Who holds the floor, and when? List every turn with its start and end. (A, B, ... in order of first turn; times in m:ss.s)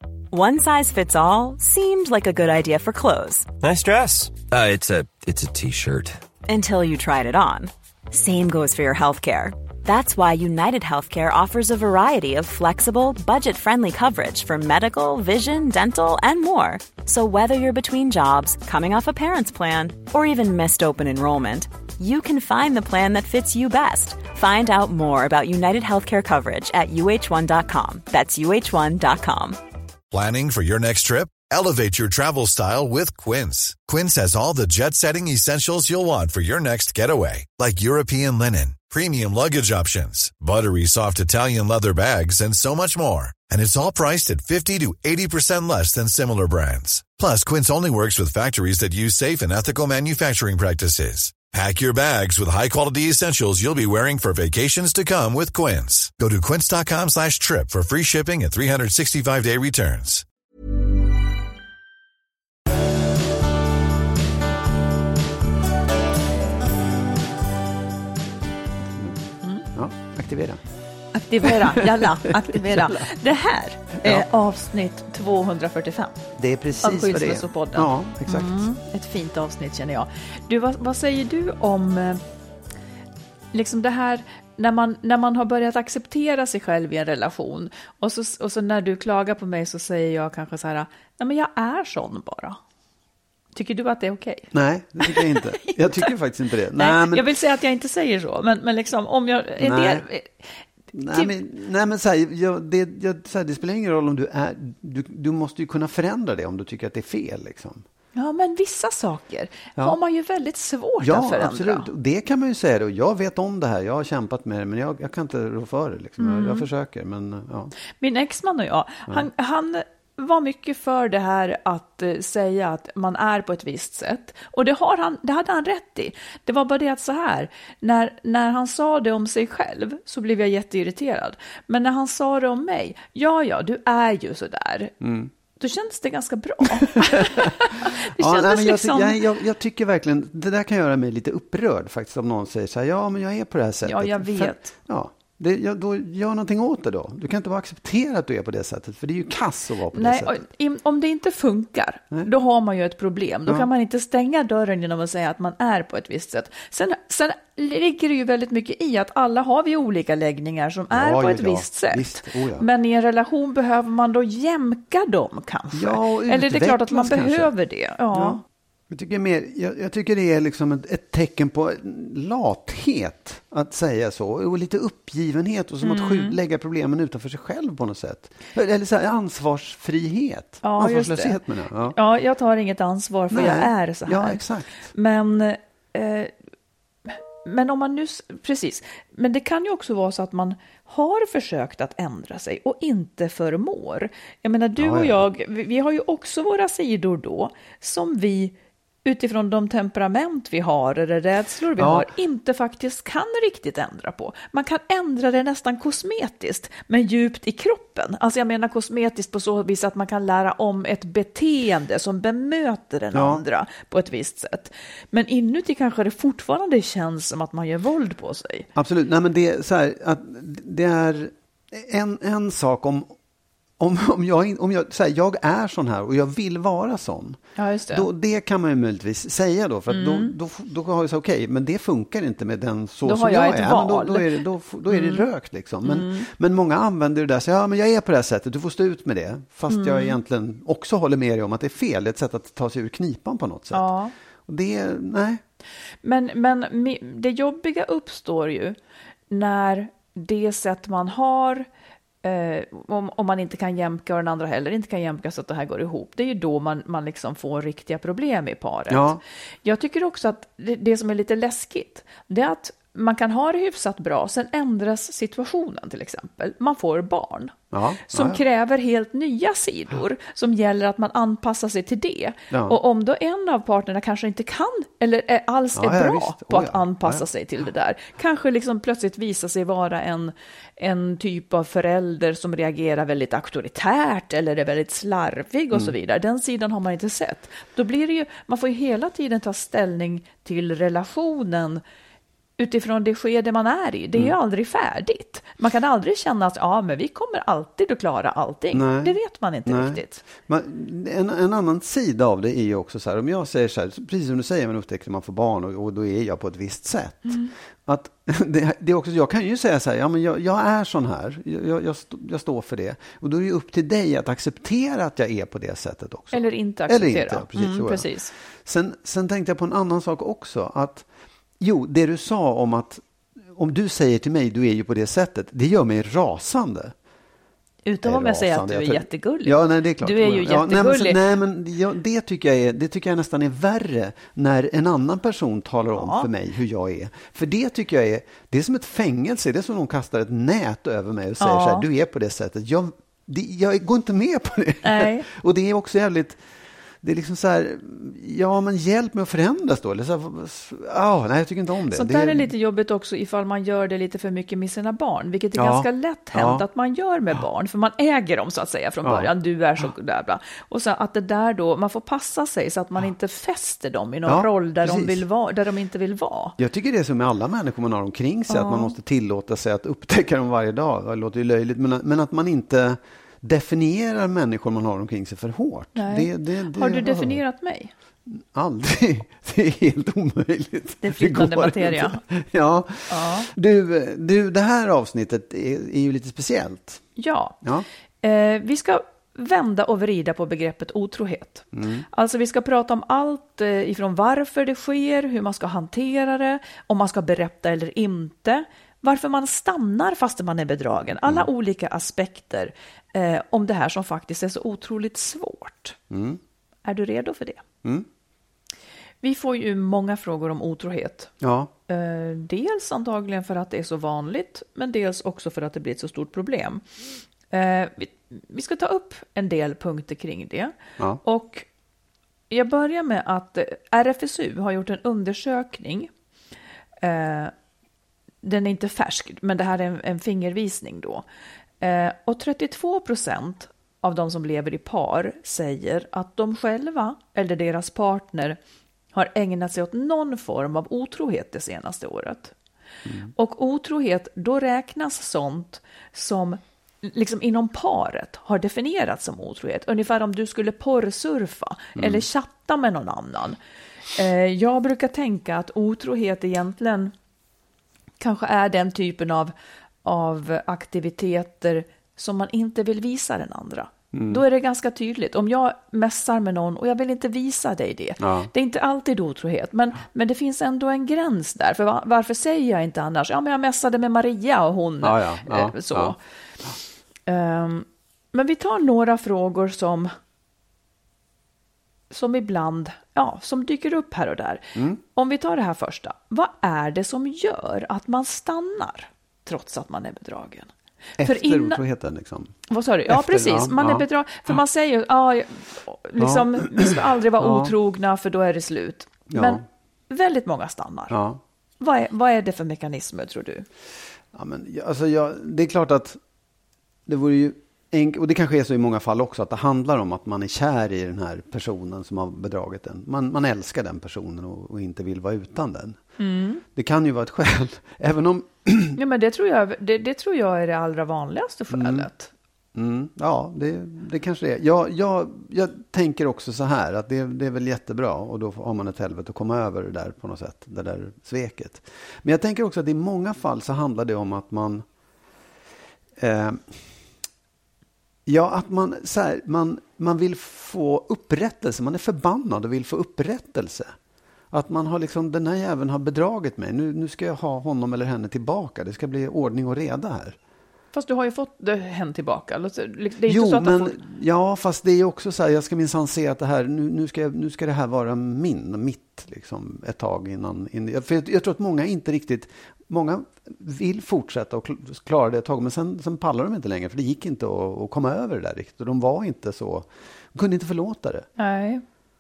0:00.3-0:03.5 A
0:03.6-0:06.2 B
0:06.5-0:29.6 A
0:30.1-1:00.2 C
1:08.8-1:10.6 D
1:11.1-1:16.2 E
1:11.4-1:13.1 D
1:16.4-1:18.6 D
1:16.8-1:22.2 E
1:23.5-1:32.6 E
1:33.6-1:36.1 E
1:34.5-1:37.3 D
1:36.8-1:41.3 E
1:39.6-1:40.0 D
1:40.9-1:47.8 D
1:48.2-1:51.9 E
1:51.0-1:57.7 D
1:56.2-1:56.6 E
1:58.0-2:14.9 E
2:15.0-2:15.3 D
2:15.6-2:19.2 E
2:17.0-2:30.4 D
2:23.8-2:24.7 E
2:29.9-2:48.4 E
2:40.9-2:42.7 D
2:45.7-2:47.5 D
2:48.1-3:02.0 D
2:55.8-2:56.4 E
3:00.6-3:01.4 E
3:01.9-3:06.3 E
3:03.3-3:04.9 D
3:07.1-3:38.7 E
3:14.8-3:15.2 D
3:21.8-3:22.1 D
3:33.1-3:33.4 D
3:38.8-3:43.2 D
3:43.8-4:03.9 D
3:47.6-3:48.1 E
3:49.9-3:50.3 E
3:53.0-3:55.3 E
3:55.8-3:56.3 E
3:59.7-4:00.2 E
4:03.7-4:04.1 E
4:04.5-4:05.4 D
4:06.0-4:08.8 E
4:09.3-4:11.7 E
4:12.2-4:51.8 E
4:18.9-4:19.2 D
4:27.7-4:28.4 D
4:32.5-4:32.8 D
4:35.8-4:37.2 D
4:52.6-5:00.2 E
4:58.7-5:18.1 D
5:16.3-5:18.3 E
5:18.6-5:21.1 D
5:21.6-5:26.9 D
5:27.9-5:31.2 E
5:28.0-5:46.4 D
5:35.9-5:36.3 E
5:41.4-5:41.8 E
5:44.8-5:45.3 E
5:47.0-5:52.5 D
5:51.9-6:06.6 E
5:55.6-5:56.6 D
5:59.0-5:59.3 D
6:04.3-6:05.2 D
6:06.6-6:17.4 D
6:08.5-6:08.9 E
6:16.0-6:17.9 E
6:18.3-6:27.0 D
6:21.0-6:22.2 E
6:23.1-6:23.5 E
6:27.2-6:27.6 E
6:28.2-6:46.0 E
6:31.7-6:32.1 D
6:41.2-6:41.5 D
6:46.1-6:46.4 D
6:46.8-6:47.6 E
6:49.2-6:51.3 E
6:51.4-6:51.7 D
6:51.9-6:56.8 E
6:57.5-7:01.7 E
7:02.5-7:06.1 E
7:07.0-7:07.5 E
7:08.4-7:11.2 E
7:11.8-7:18.6 E
7:19.1-7:22.5 E
7:23.1-7:23.3 D
7:23.4-7:33.6 E
7:32.0-7:32.2 D
7:34.1-7:37.1 E
7:38.2-7:56.2 E
7:44.1-7:44.4 D
7:48.2-7:48.5 D
7:55.0-7:56.2 D
7:57.3-8:00.1 E
8:02.1-8:11.8 E
8:04.8-8:05.0 D
8:11.2-8:14.6 D
8:12.7-8:21.2 E
8:16.2-8:17.7 D
8:19.3-8:19.6 D
8:21.1-8:21.4 D
8:21.8-8:23.7 E
8:24.3-8:26.2 D
8:27.1-8:36.0 D
8:36.2-8:36.6 E
8:36.8-8:39.0 D
8:39.0-8:42.3 E
8:41.7-8:42.1 D
8:42.8-8:54.8 D
8:56.2-8:56.7 D
8:58.3-9:03.9 D
9:04.5-9:10.4 D
9:10.9-9:14.0 E
9:13.3-9:31.3 D
9:31.4-9:31.8 E